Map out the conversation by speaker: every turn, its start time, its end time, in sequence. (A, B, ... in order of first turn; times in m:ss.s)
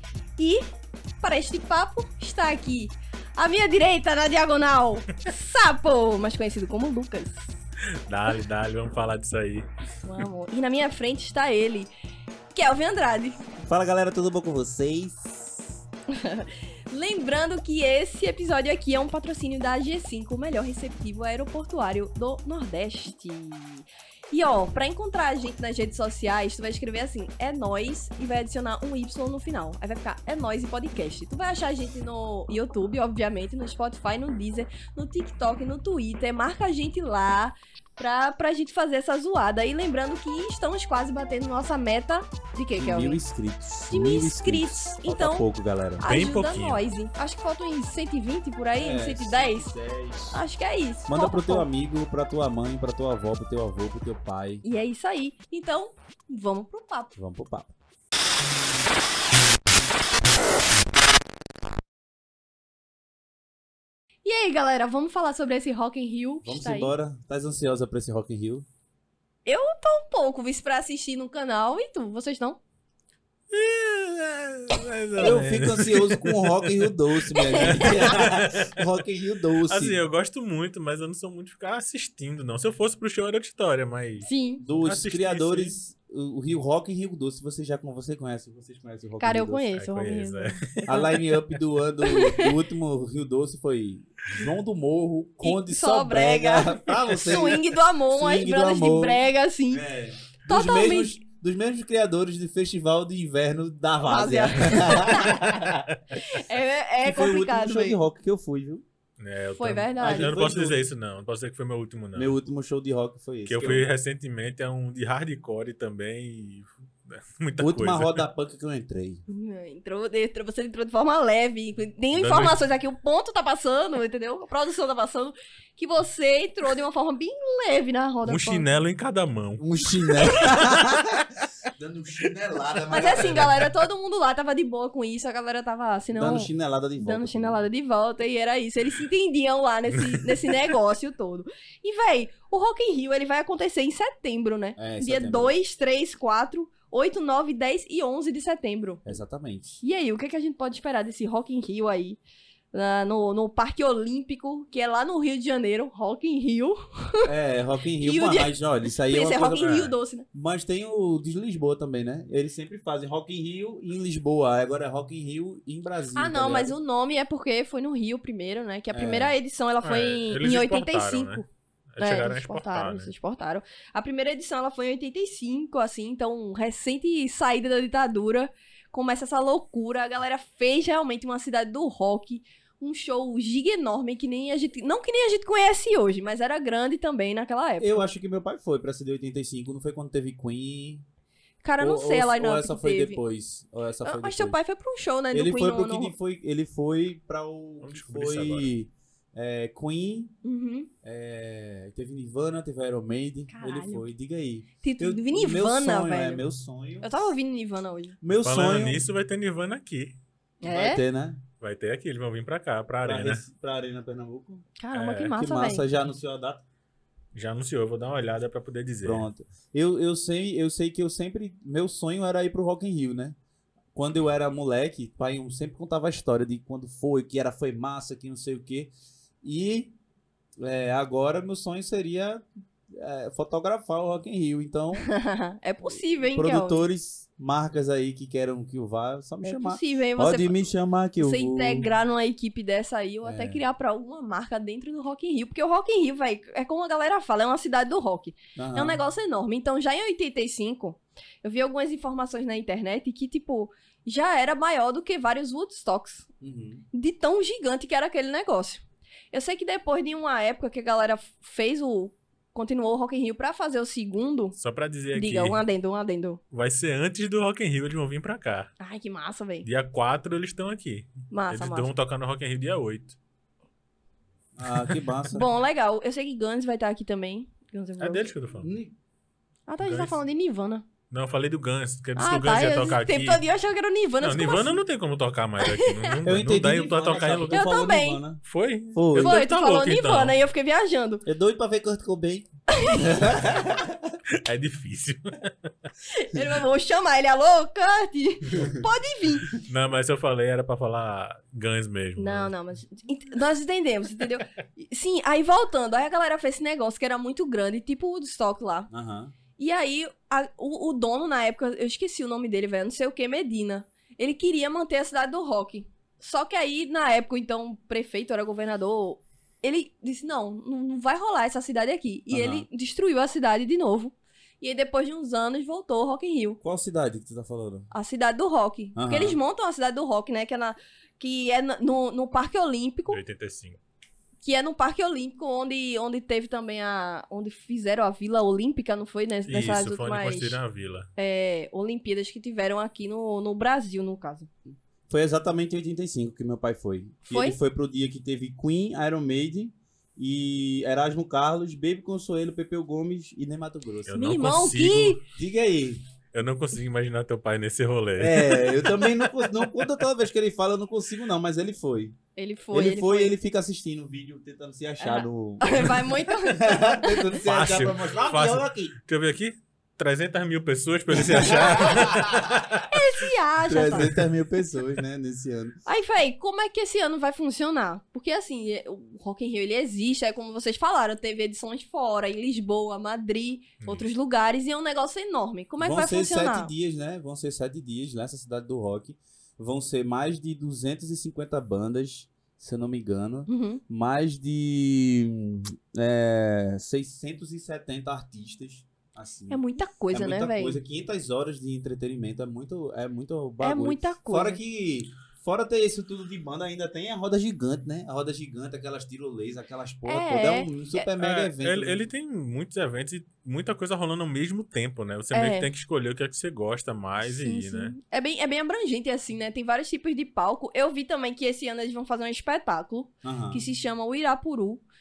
0:00.4-0:00.6 A
0:01.2-0:07.5 A
0:08.0-0:10.2 B
0:10.0-0:11.9 A
0:12.5-0:13.4 A
0:13.6-0:15.8 C
0:16.1-0:43.2 A
0:42.7-0:46.0 C
0:43.9-0:45.4 A
0:46.0-0:49.7 A
0:46.1-0:46.8 B
0:48.8-0:50.4 C
0:50.3-0:51.7 A
0:51.1-0:54.6 C
0:54.6-0:57.1 A
0:57.1-0:57.7 C
1:04.2-1:06.9 A
1:06.4-1:08.6 C
1:09.4-1:12.6 A
1:13.5-1:18.9 B
1:15.2-1:20.0 C
1:17.3-1:18.1 A
1:19.7-1:24.3 B
1:24.2-1:24.6 A
1:24.6-1:29.7 C
1:24.8-1:25.7 B
1:29.2-1:31.1 A
1:29.8-1:30.8 B
1:30.9-1:45.9 C
1:32.0-1:32.5 A
1:35.4-1:39.8 A
1:40.4-1:41.2 A
1:44.0-1:45.6 A
1:46.1-1:48.0 A
1:47.0-1:48.8 C
1:49.2-1:52.3 B
1:49.5-1:50.4 A
1:50.0-1:50.8 C
1:52.1-1:53.9 C
1:53.4-1:58.2 B
1:57.6-1:59.2 C
1:59.3-2:08.7 A
2:02.1-2:02.6 B
2:08.2-2:11.0 B
2:09.6-2:11.2 C
2:11.8-2:13.5 C
2:12.9-2:29.0 A
2:13.2-2:13.5 B
2:16.1-2:17.6 C
2:24.8-2:25.5 C
2:29.0-2:29.8 C
2:29.8-2:32.2 A
2:32.7-2:37.3 A
2:37.2-2:46.7 C
2:38.0-2:40.2 A
2:39.6-2:39.9 B
2:46.1-2:51.4 A
2:48.9-2:49.4 C
2:49.8-2:53.1 B
2:52.0-3:08.0 A
3:07.8-3:11.0 C
3:11.6-3:13.2 A
3:11.8-3:14.6 C
3:14.0-3:16.1 A
3:15.3-3:20.3 C
3:17.8-3:18.7 B
3:20.4-3:20.9 A
3:21.0-3:27.1 C
3:23.5-3:24.1 A
3:24.8-3:26.4 A
3:27.0-3:28.2 A
3:28.2-3:29.0 C
3:28.4-3:30.2 B
3:30.6-3:31.0 A
3:30.6-3:31.4 C
3:31.6-3:33.4 B
3:33.0-3:34.7 C
3:34.8-3:35.8 A
3:34.9-3:35.3 B
3:35.3-3:36.6 C
3:37.3-3:39.3 B
3:39.0-3:43.4 C
3:43.9-3:49.9 C
3:50.6-3:55.1 C
3:55.0-3:56.8 A
3:55.8-4:01.9 C
3:59.4-4:00.6 A
4:01.2-4:16.3 A
4:03.2-4:03.6 C
4:08.6-4:09.0 C
4:16.4-4:16.8 C
4:16.9-4:24.6 A
4:24.6-4:25.6 B
4:25.1-4:26.4 A
4:26.5-4:28.7 B
4:28.8-4:29.7 A
4:29.6-4:33.2 B
4:31.3-4:31.9 A
4:34.5-4:35.4 C
4:35.3-4:38.3 A
4:38.0-4:38.7 B
4:38.6-4:38.9 C
4:39.7-4:40.8 A
4:39.8-4:40.2 B
4:41.1-4:43.4 B
4:42.2-4:44.8 A
4:44.2-4:47.6 B
4:45.6-4:46.2 A
4:46.2-4:48.4 C
4:47.5-4:48.2 A
4:48.4-4:50.4 B
4:48.9-4:49.4 C
4:49.2-4:51.2 A
4:51.2-4:54.1 C
4:52.7-4:53.2 A
4:54.4-4:55.5 B
4:56.1-4:59.6 A
4:58.5-4:58.8 C
4:59.5-5:02.5 B
5:02.2-5:08.9 A
5:08.9-5:09.3 C
5:09.6-5:26.6 A
5:22.3-5:22.6 C
5:26.6-5:27.9 C
5:27.9-5:33.2 A
5:29.0-5:29.4 C
5:33.1-5:33.8 B
5:34.4-5:40.6 A
5:39.5-5:41.1 B
5:41.2-5:44.5 A
5:45.1-5:54.2 C
5:47.2-5:47.6 A
5:54.1-5:55.2 B
5:54.1-5:55.2 A
5:55.3-5:56.0 C
5:56.3-5:59.1 B
5:58.2-6:02.2 C
6:02.4-6:03.3 A
6:02.7-6:08.9 C
6:05.0-6:07.3 A
6:07.4-6:12.9 B
6:11.1-6:12.7 C
6:11.6-6:12.0 A
6:12.9-6:14.2 A
6:13.6-6:15.8 C
6:13.9-6:14.2 B
6:15.8-6:26.7 A
6:23.8-6:24.1 B
6:25.8-6:52.0 C
6:33.5-6:33.8 A
6:39.5-6:40.8 A
6:43.6-6:44.6 A
6:50.0-6:51.1 A
6:51.2-6:57.9 B
6:55.3-6:55.7 A
6:57.2-7:04.8 A
7:03.2-7:03.6 C